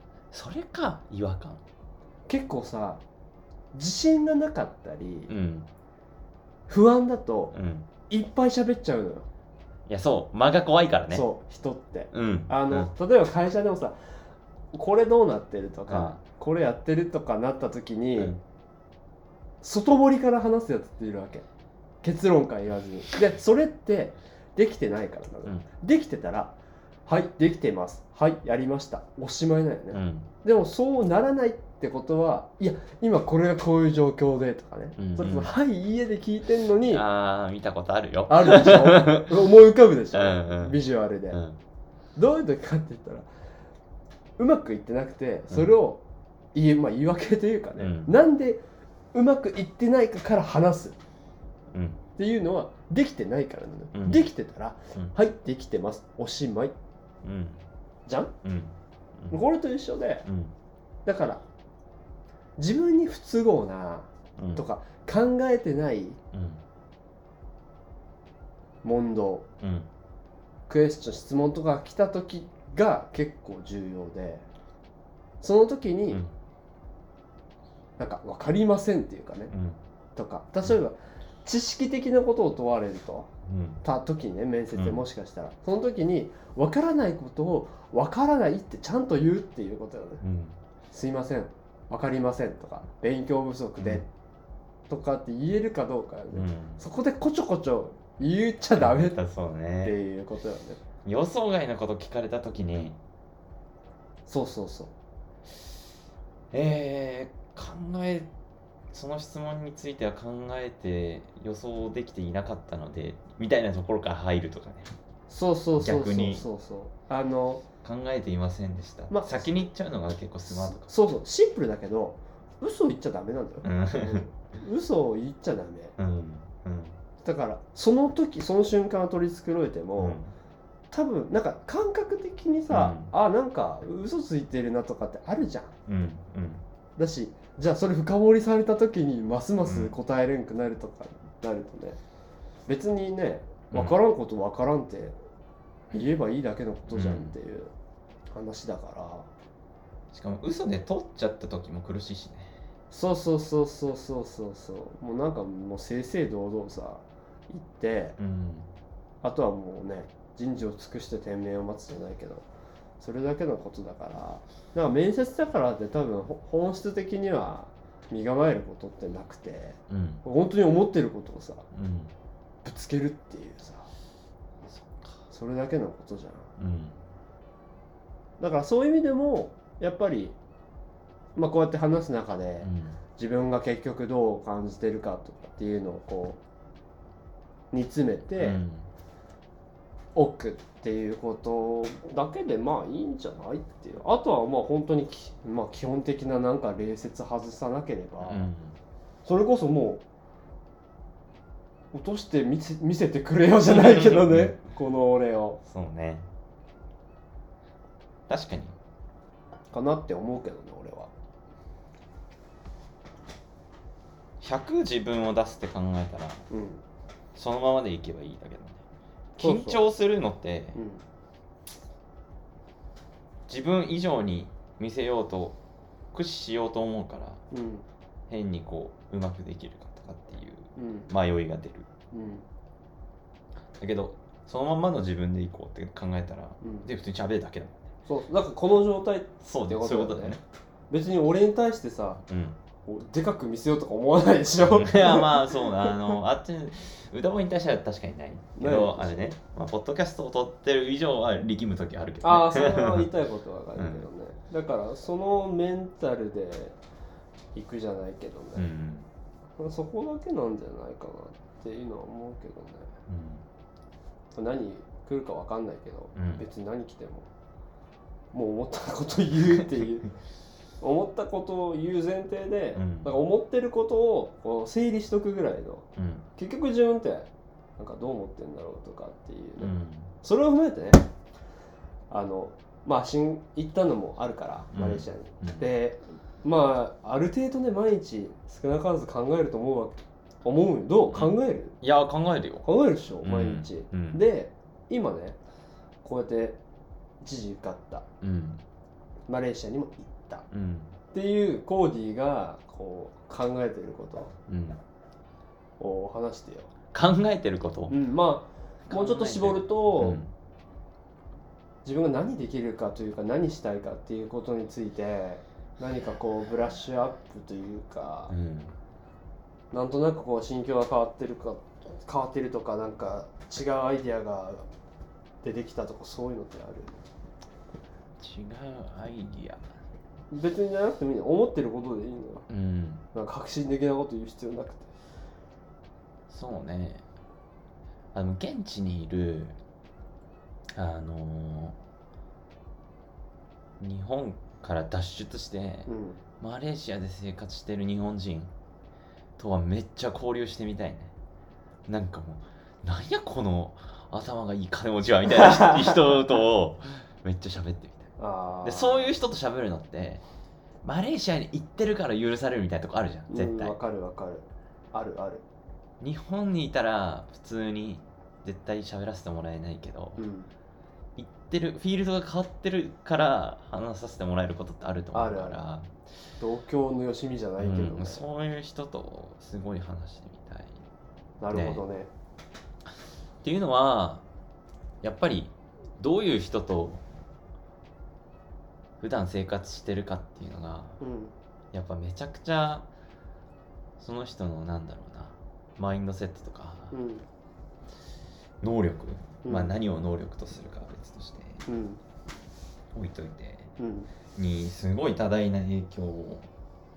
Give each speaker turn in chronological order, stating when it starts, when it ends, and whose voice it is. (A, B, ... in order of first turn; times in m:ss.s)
0:00.3-0:01.6 A
0:02.3-0:03.0 B
0:03.7-0:05.3 B
0:05.3-0:05.7 A
0:06.7-0:07.6 B
0:07.5-0:07.9 A
0:08.1-0:09.3 B
0:09.9-0:11.3 A
0:11.1-0:14.0 B
0:12.1-0:12.9 A
0:14.7-0:18.4 B
0:15.9-0:16.2 A
0:18.2-0:18.4 A
0:19.6-0:21.4 B
0:22.0-0:26.6 B
0:27.1-0:37.0 B
0:29.9-0:30.3 A
0:35.0-0:35.5 A
0:36.8-0:39.3 A
0:38.3-0:41.4 B
0:40.1-0:40.8 A
0:41.3-0:41.6 A
0:42.2-0:43.3 B
0:44.4-0:46.0 B
0:46.5-0:48.6 B
0:47.8-0:48.1 A
0:49.1-0:51.0 B
0:51.7-0:52.0 A
0:52.2-0:56.8 B
0:53.9-0:54.2 A
0:57.2-0:57.6 A
0:58.1-0:58.3 B
0:58.4-0:59.4 A
0:59.3-1:00.3 B
1:00.2-1:00.5 A
1:01.1-1:01.4 B
1:02.6-1:06.2 B
1:04.4-1:04.6 A
1:06.3-1:06.6 A
1:08.8-1:09.5 B
1:09.6-1:09.9 A
1:10.7-1:14.4 B
1:15.4-1:16.2 B
1:18.0-1:19.5 B
1:19.5-1:19.8 A
1:20.2-1:23.3 B
1:23.4-1:23.8 A
1:23.8-1:30.2 B
1:24.8-1:25.0 A
1:30.2-1:30.6 A
1:30.9-1:34.1 B
1:33.8-1:34.0 A
1:34.9-1:39.2 B
1:36.3-1:36.8 A
1:38.8-1:40.0 A
1:39.8-1:40.8 B
1:41.0-1:43.0 A
1:44.3-1:44.9 B
1:46.5-1:48.3 A
1:48.9-1:54.9 A
1:55.3-1:57.6 B
1:55.8-1:56.4 A
1:57.8-2:00.9 A
1:59.1-1:59.5 B
2:00.5-2:06.0 B
2:03.6-2:04.3 A
2:06.0-2:07.0 A
2:07.2-2:10.2 B
2:10.0-2:10.3 A
2:10.9-2:15.7 B
2:12.7-2:13.1 A
2:15.9-2:16.6 A
2:17.0-2:22.0 B
2:19.6-2:19.9 A
2:22.7-2:25.2 B
2:23.7-2:24.0 A
2:25.9-2:27.7 B
2:26.9-2:27.4 A
2:28.3-2:29.3 B
2:30.1-2:32.6 A
2:32.9-2:38.2 B
2:38.2-2:38.7 A
2:39.2-2:42.5 B
2:43.0-2:51.7 B
2:49.9-2:50.2 A
2:51.7-2:52.1 A
2:52.6-2:53.9 B
2:54.7-2:55.2 A
2:55.3-2:56.5 B
2:56.6-2:57.0 A
2:58.4-3:00.4 B
3:01.4-3:06.4 B
3:02.6-3:03.0 A
3:07.7-3:08.6 B
3:08.4-3:08.9 A
3:10.2-3:18.5 B
3:18.2-3:18.8 A
3:19.2-3:20.0 B
3:21.9-3:25.6 B
3:23.7-3:24.6 A
3:25.6-3:26.3 A
3:28.3-3:28.8 A
3:29.7-3:31.1 B
3:34.4-3:36.4 A
3:36.5-3:36.8 B
3:37.4-3:38.8 A
3:39.4-3:39.8 B
3:39.4-3:40.8 A
3:40.7-3:41.0 B
3:43.5-3:45.6 A
3:46.1-3:47.4 A
3:47.5-3:47.9 B
3:48.3-3:51.9 A
3:50.8-3:51.1 B
3:52.1-3:52.4 B
3:53.8-3:57.9 A
3:56.6-3:56.9 B
3:58.1-4:00.4 B
3:59.4-4:00.4 A
4:00.9-4:02.2 B
4:02.3-4:02.6 A
4:02.9-4:06.1 B
4:04.6-4:13.1 A
4:08.6-4:09.2 B
4:12.2-4:16.8 B
4:13.8-4:14.1 A
4:17.6-4:18.7 B
4:18.6-4:19.1 A
4:19.6-4:22.9 B
4:23.1-4:23.4 A
4:24.3-4:27.3 B
4:26.2-4:26.4 A
4:28.3-4:30.1 B
4:30.8-4:41.1 B
4:32.8-4:33.1 A
4:36.0-4:36.3 A
4:39.6-4:40.1 A
4:42.1-4:51.8 B
4:44.7-4:45.6 A
4:51.1-4:52.7 A
4:52.6-4:55.4 B
4:53.2-4:54.2 A
4:56.0-4:56.6 B
4:57.2-4:58.0 B
4:58.2-4:58.6 A
4:59.3-5:00.5 B
5:00.5-5:00.9 A
5:01.1-5:04.4 B
5:04.5-5:04.8 A
5:05.8-5:06.7 B
5:06.9-5:08.0 A
5:07.9-5:10.2 B
5:08.9-5:10.3 A
5:11.8-5:18.3 B
5:18.3-5:18.8 A
5:19.7-5:24.7 B
5:25.4-5:27.0 B
5:28.2-5:29.6 A
5:30.3-5:32.5 B
5:32.5-5:33.0 A
5:33.1-5:34.9 B
5:36.3-5:37.0 A
5:38.1-5:39.6 A
5:40.7-5:41.8 A
5:43.8-5:45.9 A
5:45.9-5:46.2 B
5:46.4-5:48.5 A
5:49.4-5:51.1 A
5:51.9-5:58.1 A
5:55.3-5:56.0 B
5:58.2-5:59.1 B
5:58.6-6:00.2 A
6:00.8-6:03.8 A
6:03.3-6:05.4 B
6:06.0-6:10.2 A
6:10.2-6:10.5 B
6:11.2-6:15.9 A
6:15.1-6:15.6 B
6:16.4-6:18.2 B
6:17.6-6:20.8 A
6:21.4-6:22.1 B
6:21.5-6:21.8 A
6:23.4-6:24.2 A
6:25.0-6:27.0 A
6:29.0-6:31.0 A
6:31.0-6:31.3 B
6:31.7-6:32.9 A
6:34.0-6:36.9 A
6:36.9-6:37.2 B
6:38.6-6:41.6 A
6:39.4-6:39.7 B
6:41.7-6:42.0 B
6:42.9-6:43.7 A
6:43.8-6:44.1 B
6:44.4-6:46.5 A